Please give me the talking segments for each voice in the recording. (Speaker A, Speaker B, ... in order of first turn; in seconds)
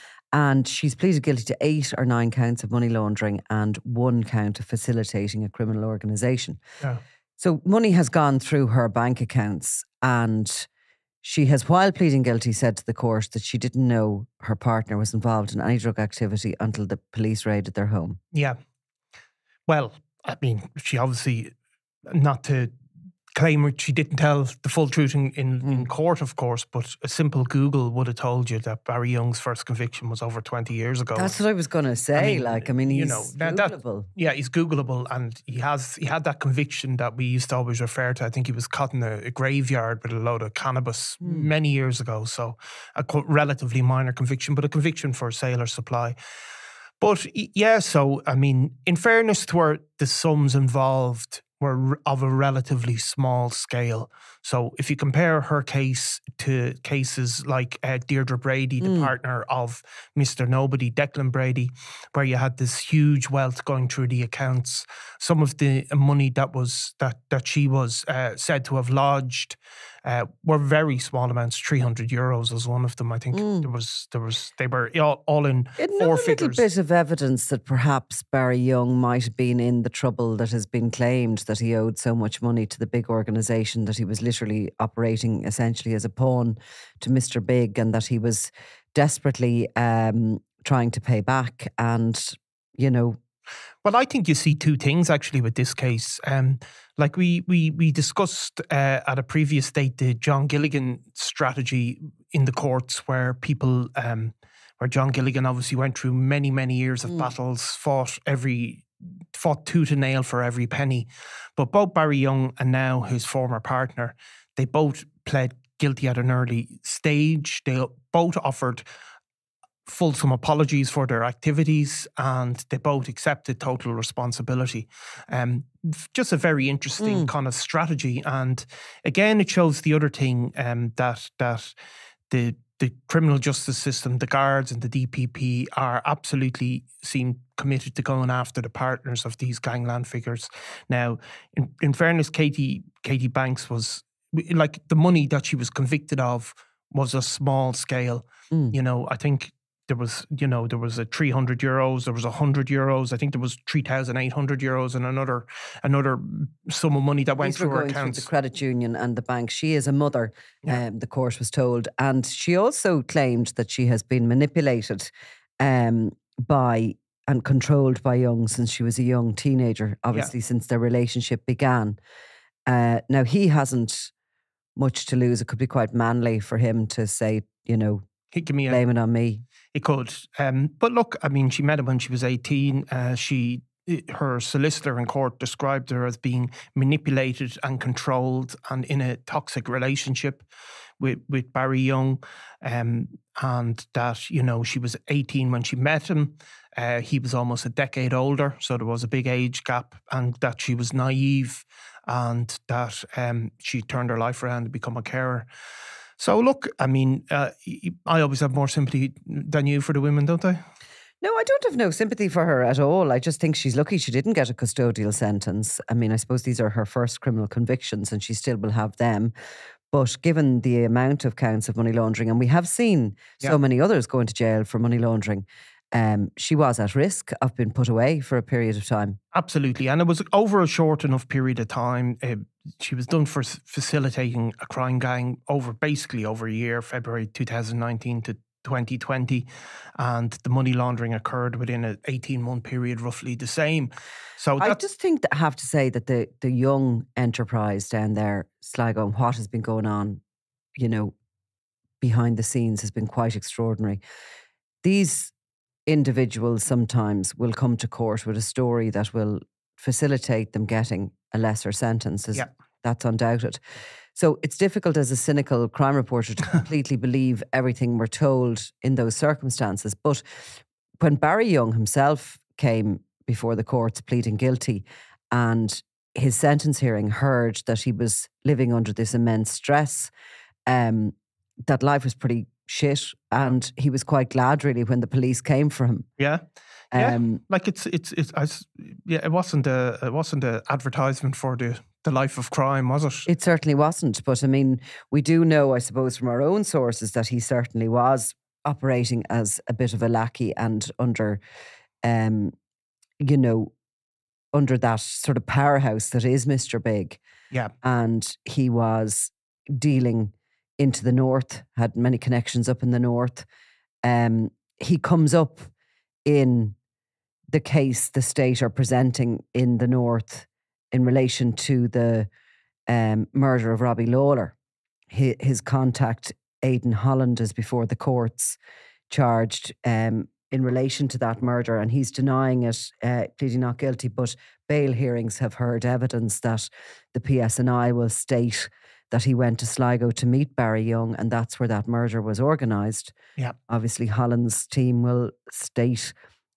Speaker A: 0.3-6.6, 7.4-10.7, 11.2-18.2, 31.1-34.1, 41.2-41.5, 58.8-59.1, 73.3-73.7, 75.8-93.2, 127.0-127.3, 148.5-148.8, 157.4-172.0, 172.7-174.1, 174.8-178.0, 178.7-179.4, 211.2-219.3, 219.9-229.2, 244.6-250.2, 250.8-251.1, 252.0-254.0, 254.8-255.3, 255.9-263.6, 264.1-270.2, 271.0-280.1, 280.7-281.1, 281.7-286.1, 286.9-287.4, 293.3-301.4, 302.0-302.5, 303.2-303.7, 304.5-307.2, 307.8-313.4, 314.0-315.7, 316.2-316.8, 317.5-322.3, 322.9-324.6, 325.1-328.6, 329.1-343.1, 343.7-346.1
Speaker B: 19.7-21.5, 22.1-22.7, 23.4-31.4, 32.1-46.2, 47.0-76.6, 93.8-118.9, 119.9-131.7, 132.3-158.3, 178.3-178.8, 179.7-190.4, 191.0-205.5, 206.2-210.6, 229.3-239.5, 240.0-244.8, 286.2-286.4, 286.9-293.3